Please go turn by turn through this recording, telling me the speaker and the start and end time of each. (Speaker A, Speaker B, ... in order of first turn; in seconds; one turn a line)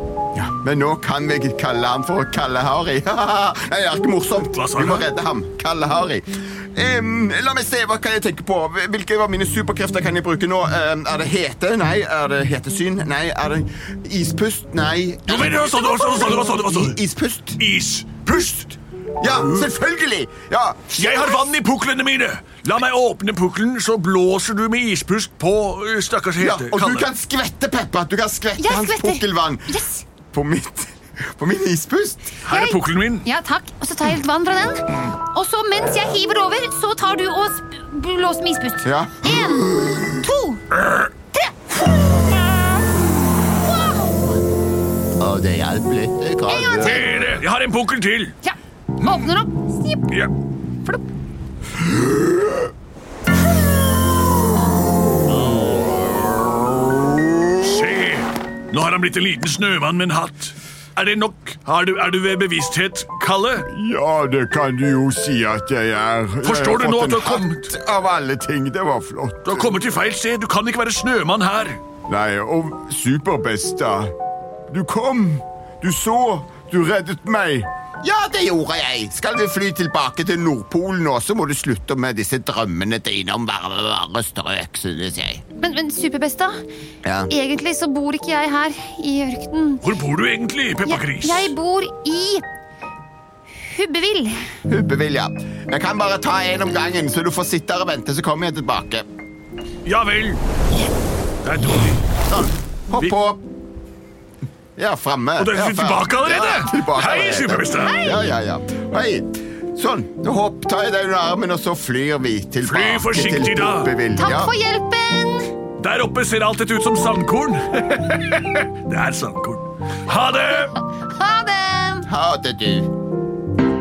Speaker A: 0.3-17.6
Speaker B: 4.5-5.1
Speaker B: 15.3-16.9
Speaker B: 17.6-18.7
Speaker A: 19.2-20.9
Speaker B: 20.9-27.1
Speaker A: 26.4-32.4
Speaker C: 28.6-30.0
Speaker B: 32.5-33.3
Speaker C: 32.5-40.6
Speaker A: 38.8-40.1
Speaker C: 41.3-44.4
Speaker A: 45.2-47.1
Speaker C: 46.5-47.2
Speaker B: 46.8-48.3
Speaker C: 48.4-50.0
Speaker A: 55.5-57.5
Speaker B: 57.6-63.6
Speaker A: 63.7-69.7
Speaker B: 66.4-67.7
Speaker B: 69.5-71.8
Speaker A: 72.1-74.1
Speaker A: 74.7-85.4
Speaker C: 85.6-86.5
Speaker A: 87.0-87.3
Speaker C: 87.3-89.9
Speaker B: 89.8-91.5
Speaker C: 90.8-92.4
Speaker C: 93.5-94.5
Speaker A: 94.7-99.0
Speaker B: 99.9-100.4
Speaker B: 101.4-102.0
Speaker A: 102.3-103.4
Speaker A: 104.8-114.5
Speaker B: 105.4-107.9
Speaker C: 107.8-108.3
Speaker B: 112.8-113.9
Speaker C: 114.1-115.5
Speaker B: 115.8-120.7
Speaker C: 120.8-122.1
Speaker A: 122.0-122.9